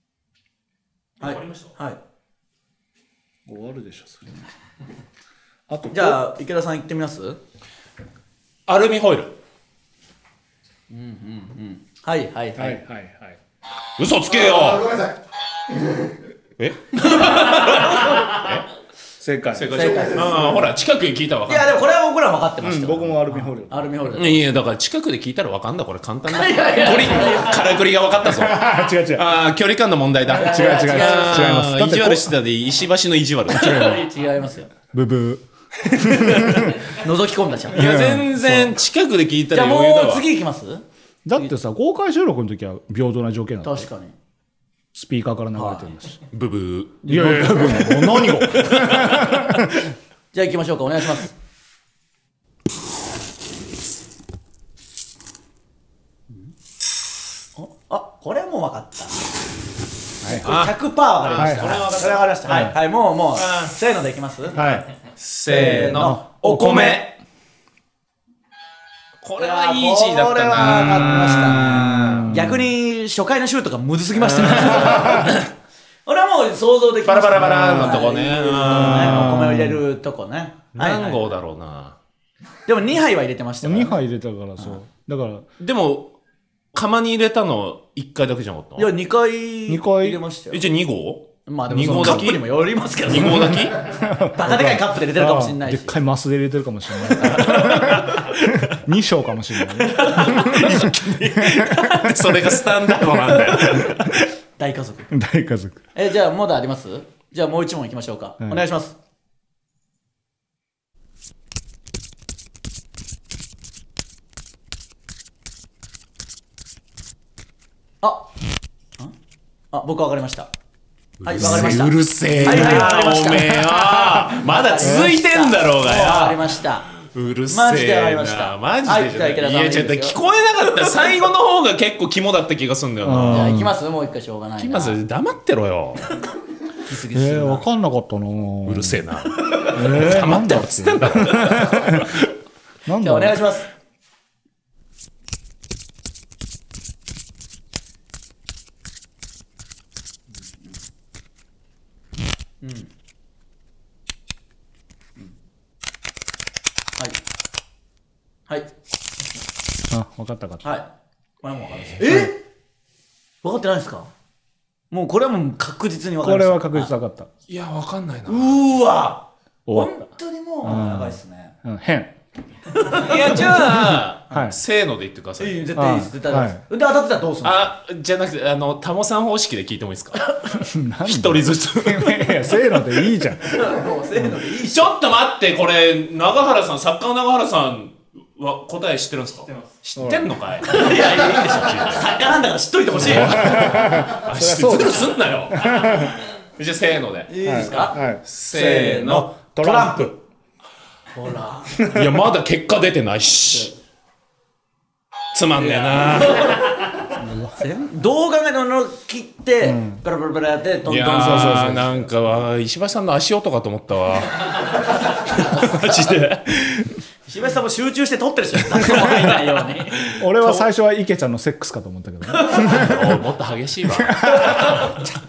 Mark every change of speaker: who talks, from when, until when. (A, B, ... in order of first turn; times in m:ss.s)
0:01.2-0:01.7 A
0:01.2-0:02.0 B
0:03.4-0:04.4 C
0:05.7-0:06.2 C
0:05.9-0:07.4 B
0:08.7-0:09.3 A
0:10.9-0:12.8 B
0:12.6-0:13.4 C
0:14.0-0:14.9 A
0:14.3-0:16.1 D
0:16.6-0:18.7 A
0:17.0-0:18.3 B
0:19.2-0:20.1 C
0:19.5-0:21.7 A
0:19.7-0:20.6 B
0:19.9-0:20.6 D
0:21.5-0:24.5 B
0:22.6-0:24.1 C
0:24.1-0:33.9 A
0:26.2-0:27.7 B
0:28.3-0:29.3 C
0:30.3-0:31.7 B
0:30.3-0:32.3 C
0:33.5-0:34.7 B
0:33.5-0:34.1 C
0:34.9-0:36.8 C
0:36.3-0:37.9 B
0:37.7-0:40.2 A
0:37.7-0:38.8 C
0:39.5-0:40.8 B
0:41.2-0:43.9 C
0:43.6-0:44.1 B
0:44.9-0:46.2 C
0:45.6-0:45.9 B
0:46.3-0:49.5 A
0:47.0-0:49.9 C
0:47.1-0:48.0 B
0:50.3-0:51.3 B
0:57.6-0:59.3 B
1:00.2-1:04.6 B
1:00.4-1:02.4 A
1:01.3-1:01.8 C
1:02.4-1:02.7 C
1:03.3-1:03.7 A
1:04.5-1:04.8 C
1:05.2-1:07.1 A
1:05.5-1:07.1 B
1:05.9-1:06.2 C
1:09.2-1:12.3 A
1:09.4-1:15.5 B
1:11.1-1:12.7 C
1:14.2-1:15.4 C
1:16.0-1:21.4 B
1:17.0-1:19.4 A
1:17.4-1:18.1 C
1:18.7-1:19.8 C
1:20.7-1:22.0 A
1:22.6-1:24.0 B
1:23.6-1:25.5 C
1:25.6-1:26.1 A
1:26.7-1:28.9 A
1:28.8-1:30.6 B
1:29.7-1:30.2 C
1:30.5-1:32.4 A
1:31.4-1:36.0 B
1:31.7-1:32.3 C
1:33.0-1:33.8 A
1:33.5-1:42.4 C
1:37.2-1:38.7 A
1:37.4-1:37.8 B
1:39.8-1:44.3 A
1:44.6-1:45.1 B
1:45.1-1:45.8 C
1:45.9-1:48.9 B
1:58.0-1:58.3 B
1:59.7-2:00.5 B
2:01.2-2:06.4 A
2:01.2-2:06.9 B
2:01.5-2:01.7 C
2:02.3-2:03.0 C
2:07.0-2:13.7 A
2:07.5-2:10.2 B
2:13.0-2:13.8 C
2:13.3-2:15.0 B
2:14.6-2:16.2 A
2:16.8-2:17.7 B
2:17.1-2:19.0 C
2:18.6-2:22.3 A
2:19.7-2:22.2 C
2:20.1-2:20.5 B
2:22.8-2:23.5 C
2:23.0-2:23.7 B
2:32.6-2:32.9 B
2:39.9-2:40.8 C
2:40.6-2:40.9 B
2:41.4-2:42.4 B
2:43.4-2:44.1 B
2:44.9-2:46.9 B
2:46.2-2:47.3 C
2:47.5-2:48.6 A
2:48.3-2:51.5 B
2:49.6-2:50.0 C
2:50.6-2:52.2 C
2:52.7-2:53.6 B
2:52.9-2:55.6 A
2:54.3-2:54.6 C
2:55.4-2:57.7 B
2:55.8-2:56.6 C
2:57.4-3:00.3 A
3:00.6-3:03.6 C
3:01.0-3:02.7 A
3:03.5-3:04.9 B
3:04.6-3:12.0 A
3:10.0-3:10.3 C
3:10.6-3:13.8 B
3:12.9-3:17.3 A
3:13.0-3:16.2 C
3:17.3-3:20.2 B
3:17.4-3:20.0 C
3:18.2-3:19.3 A
3:21.1-3:21.8 B
3:21.8-3:22.2 C
3:21.8-3:23.7 A
3:23.4-3:23.7 B
3:25.3-3:26.6 A
3:25.6-3:31.8 B
3:27.2-3:27.6 C
3:29.6-3:30.0 C
3:30.8-3:37.0 A
3:31.1-3:32.1 C
3:35.2-3:36.1 B
3:37.3-3:40.1 B
3:38.8-3:39.3 A
3:39.9-3:40.6 A
3:40.1-3:43.0 C
3:42.3-3:42.8 B
3:42.5-3:45.0 A
3:43.9-3:44.7 C
3:44.4-3:45.0 B